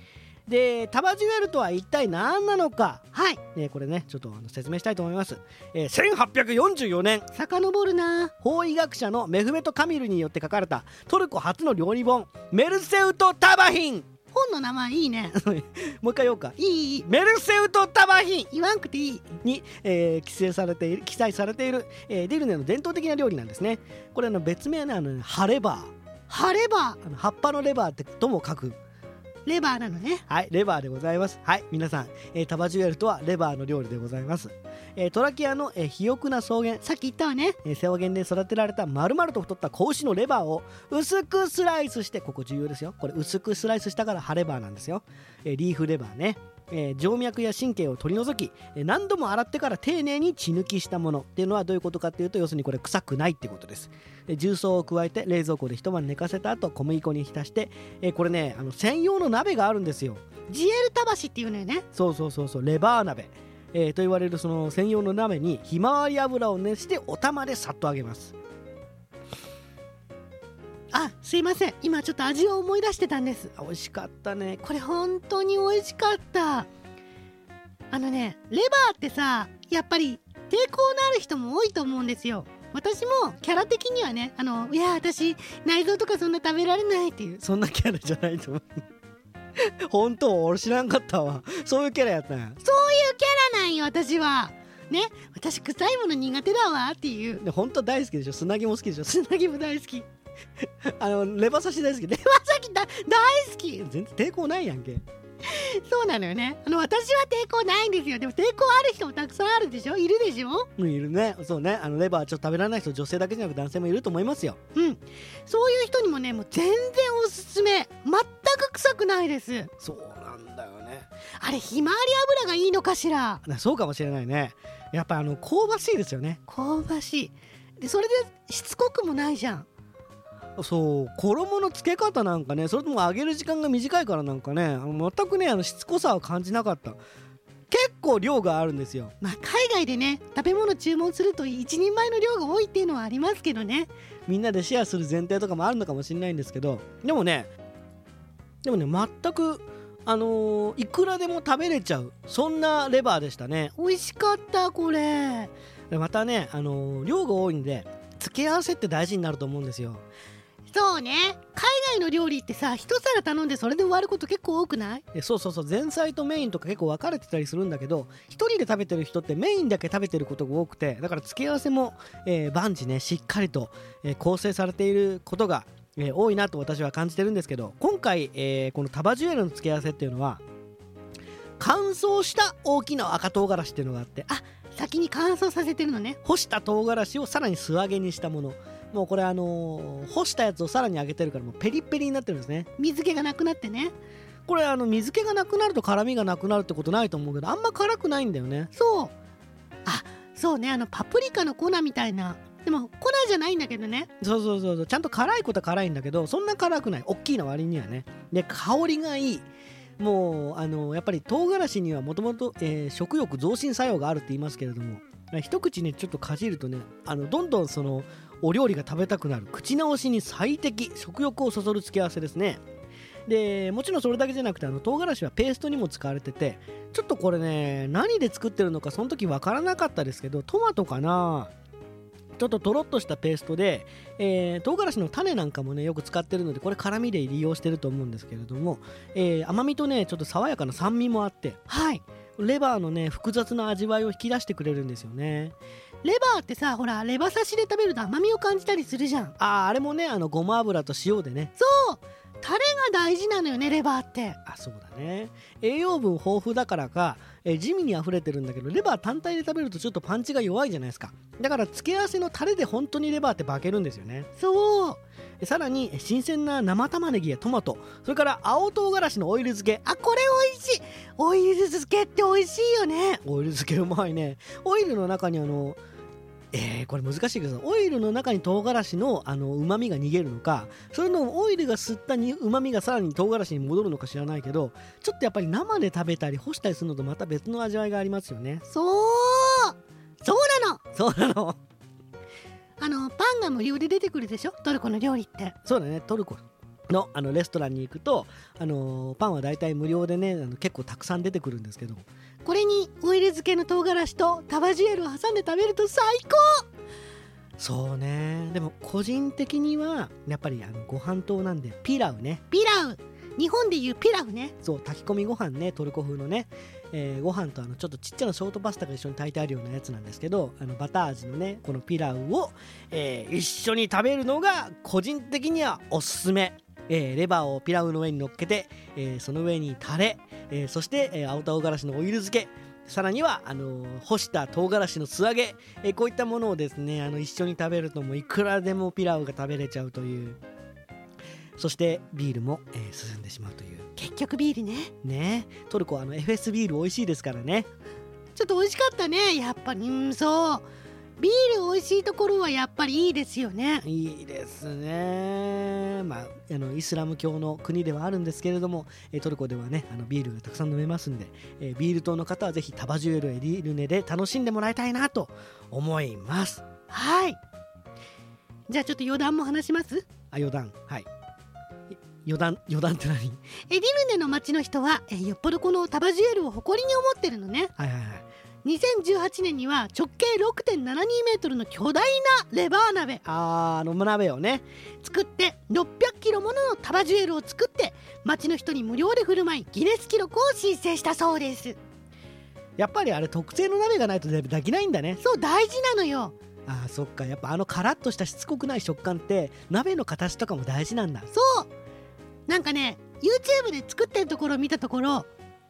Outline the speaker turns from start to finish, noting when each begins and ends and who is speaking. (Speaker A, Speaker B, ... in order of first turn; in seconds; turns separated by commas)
Speaker A: 0.5-7.3, Speaker B: 3.1-3.4, Speaker B: 7.3-8.3, Speaker A: 8.4-14.1, Speaker B: 14.3-15.4, Speaker A: 15.4-18.5, Speaker B: 16.6-17.1, Speaker B: 18.5-19.3, Speaker A: 19.3-25.9, Speaker B: 26.3-27.0, Speaker A: 27.0-28.8, Speaker B: 29.4-30.2, Speaker A: 30.3-36.8, Speaker B: 36.8-37.6, Speaker A: 37.6-60.2, Speaker B: 60.5-61.8, Speaker A: 61.9-68.3, Speaker B: 70.9-73.5, Speaker A: 73.5-74.6, Speaker B: 74.6-76.7, Speaker B: 77.9-87.4, Speaker A: 87.4-88.8, Speaker A: 89.6-92.6, Speaker B: 92.6-97.4, Speaker A: 97.4-99.3, Speaker B: 99.2-100.1, Speaker A: 100.8-102.4, Speaker B: 102.3-103.8, Speaker A: 103.8-105.0, Speaker B: 105.4-110.7, Speaker A: 110.8-114.6, Speaker B: 114.8-119.7, Speaker A: 119.8-121.1, Speaker B: 121.4-123.4, Speaker A: 123.4-126.4, Speaker B: 126.5-129.7, Speaker A: 130.6-137.0, Speaker A: 137.7-139.1, Speaker B: 139.2-143.9, Speaker A: 144.3-147.5, Speaker A: 148.6-153.7, Speaker B: 153.8-155.5, Speaker A: 155.9-160.0, Speaker B: 160.7-165.0, Speaker A: 165.1-180.4, Speaker A: 181.6-184.3, Speaker B: 184.3-186.2, Speaker A: 186.2-192.7, Speaker B: 192.8-193.9, Speaker A: 194.5-198.7, Speaker B: 198.7-199.1, Speaker B: 199.8-204.1, Speaker A: 204.2-209.4, Speaker A: 210.0-222.6, Speaker A: 223.3-231.5, Speaker A: 232.3-241.6, Speaker B: 241.7-242.0, Speaker A: 242.4-245.5, Speaker B: 246.0-249.3, Speaker A: 249.4-251.5, Speaker B: 251.6-254.4, Speaker A: 254.4-264.3, Speaker B: 264.4-265.0, Speaker A: 265.4-269.8, Speaker B: 269.9-273.2, Speaker A: 273.2-275.8, Speaker A: 276.5-288.6, Speaker B: 288.7-290.8, Speaker A: 290.9-291.6, Speaker B: 292.8-295.6, Speaker A: 295.6-302.0, Speaker B: 302.4-306.6, Speaker A: 307.6-312.4, Speaker B: 312.5-314.5, Speaker A: 314.6-340.4, Speaker A: 341.6-343.9, Speaker B: 344.0-344.9, Speaker A: 345.0-347.7, Speaker B: 348.3-350.6, Speaker B: 351.2-353.8, Speaker A: 353.8-366.6, Speaker B: 366.9-367.4, Speaker B: 368.7-370.1, Speaker A: 370.3-371.1, Speaker A: 371.9-373.4, Speaker B: 373.7-377.7, Speaker A: 377.8-378.2, Speaker B: 378.6-383.2, Speaker A: 383.2-384.6, Speaker B: 385.0-391.8, Speaker A: 392.8-395.2, Speaker B: 395.2-396.4, Speaker A: 396.6-401.3, Speaker B: 401.3-401.7, Speaker B: 402.5-405.3